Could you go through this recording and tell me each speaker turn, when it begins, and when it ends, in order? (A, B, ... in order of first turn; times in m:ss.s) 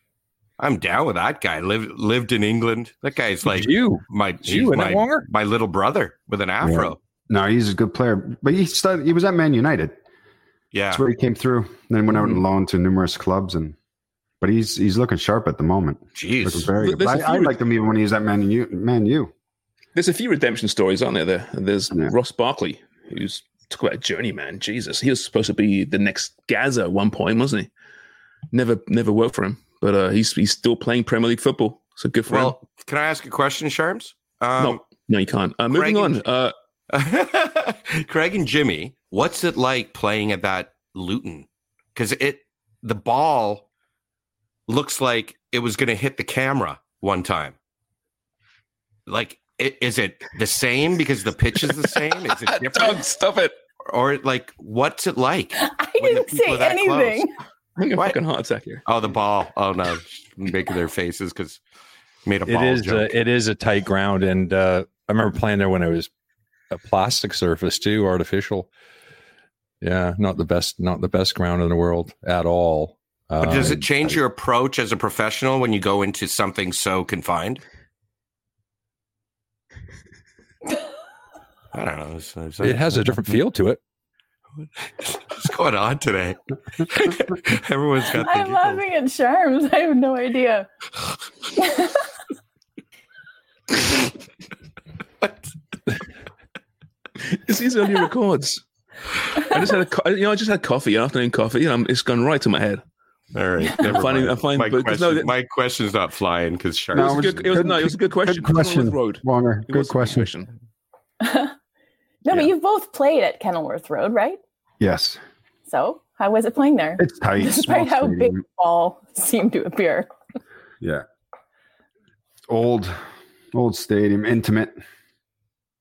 0:00.6-0:07.0 A
0:03.4-0:05.3 B
0:06.6-0:09.9 C
0:10.7-0:11.0 A
0:10.9-0:13.7 C
0:14.4-0:19.3 C
0:16.1-0:16.7 A
0:16.8-0:17.6 D
0:19.9-0:27.7 D
0:28.5-0:32.6 D
0:32.3-0:34.8 A
0:34.6-0:36.5 D
0:35.7-0:36.2 A
0:36.9-0:43.6 A
0:44.7-0:47.5 A
0:49.1-0:53.0 A
0:51.6-0:53.5 D
0:53.9-0:57.2 A
0:55.6-0:57.3 E
0:57.8-0:58.8 D
0:58.8-1:01.6 A
1:02.2-1:03.1 A
1:02.4-1:06.1 B
1:06.7-1:08.7 B
1:09.8-1:14.2 B
1:13.4-1:17.6 A
1:21.7-1:23.1 A
1:22.6-1:23.8 B
1:25.0-1:28.8 A
1:28.2-1:30.7 E
1:31.6-1:32.0 E
1:37.2-1:38.6 D
1:39.4-1:42.8 D
1:43.3-1:47.3 A
1:43.8-1:45.3 D
1:46.9-1:50.3 C
1:47.0-1:50.5 D
1:51.2-1:51.5 E
1:52.2-1:54.4 E
1:54.8-1:55.2 C
1:55.7-2:00.1 E
1:57.0-1:58.4 C
2:02.5-2:03.0 C
2:03.5-2:04.7 C